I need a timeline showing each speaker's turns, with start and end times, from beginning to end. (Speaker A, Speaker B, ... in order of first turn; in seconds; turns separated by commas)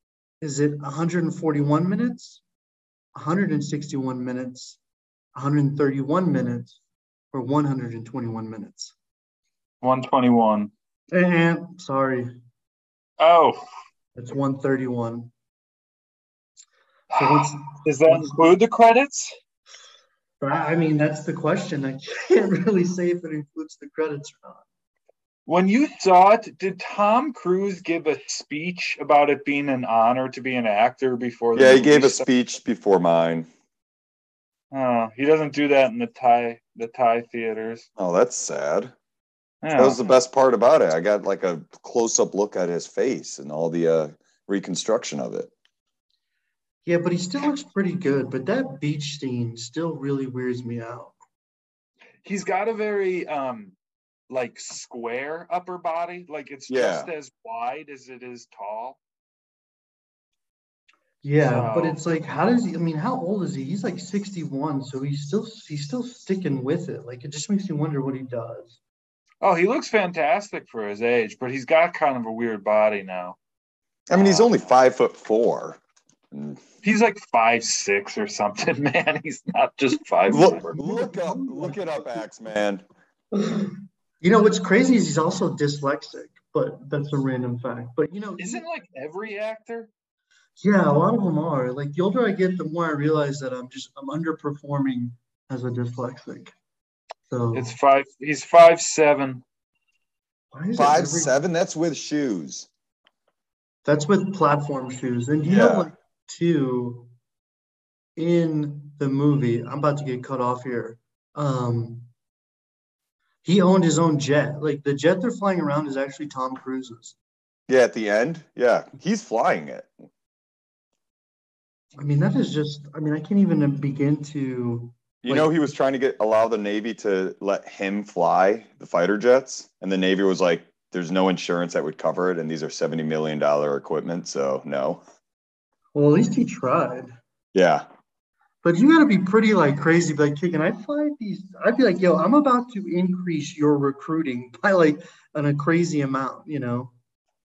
Speaker A: 0.4-2.4, Speaker A: 3.1-4.8, Speaker A: 5.4-6.8, Speaker A: 7.3-8.9, Speaker B: 9.8-10.7, Speaker A: 11.1-12.3, Speaker B: 13.2-13.6, Speaker A: 14.2-15.3, Speaker B: 17.1-19.3, Speaker A: 17.1-18.5, Speaker A: 20.4-24.6, Speaker B: 25.5-32.3, Speaker C: 31.6-33.5, Speaker B: 34.7-37.9, Speaker C: 38.0-38.9, Speaker B: 39.6-40.0, Speaker C: 39.8-45.5, Speaker A: 46.9-51.1, Speaker B: 52.2-53.8, Speaker B: 54.3-59.0, Speaker C: 56.7-57.1, Speaker A: 61.2-68.8, Speaker B: 61.5-62.0, Speaker B: 69.4-73.4, Speaker C: 74.1-75.8, Speaker B: 74.1-74.6, Speaker C: 76.3-76.6, Speaker B: 76.8-80.7, Speaker C: 80.3-82.8, Speaker A: 80.3-82.2, Speaker A: 83.3-88.7, Speaker B: 88.4-89.9, Speaker A: 90.6-96.5, Speaker A: 97.3-97.7, Speaker B: 97.5-99.4, Speaker A: 100.5-101.3, Speaker C: 100.8-102.7, Speaker A: 103.8-107.1, Speaker C: 105.4-105.9, Speaker A: 108.2-112.1, Speaker A: 113.4-117.2, Speaker C: 117.7-119.9, Speaker A: 122.0-125.7, Speaker C: 125.2-135.0, Speaker A: 135.9-137.1, Speaker C: 137.5-137.8, Speaker A: 138.6-146.9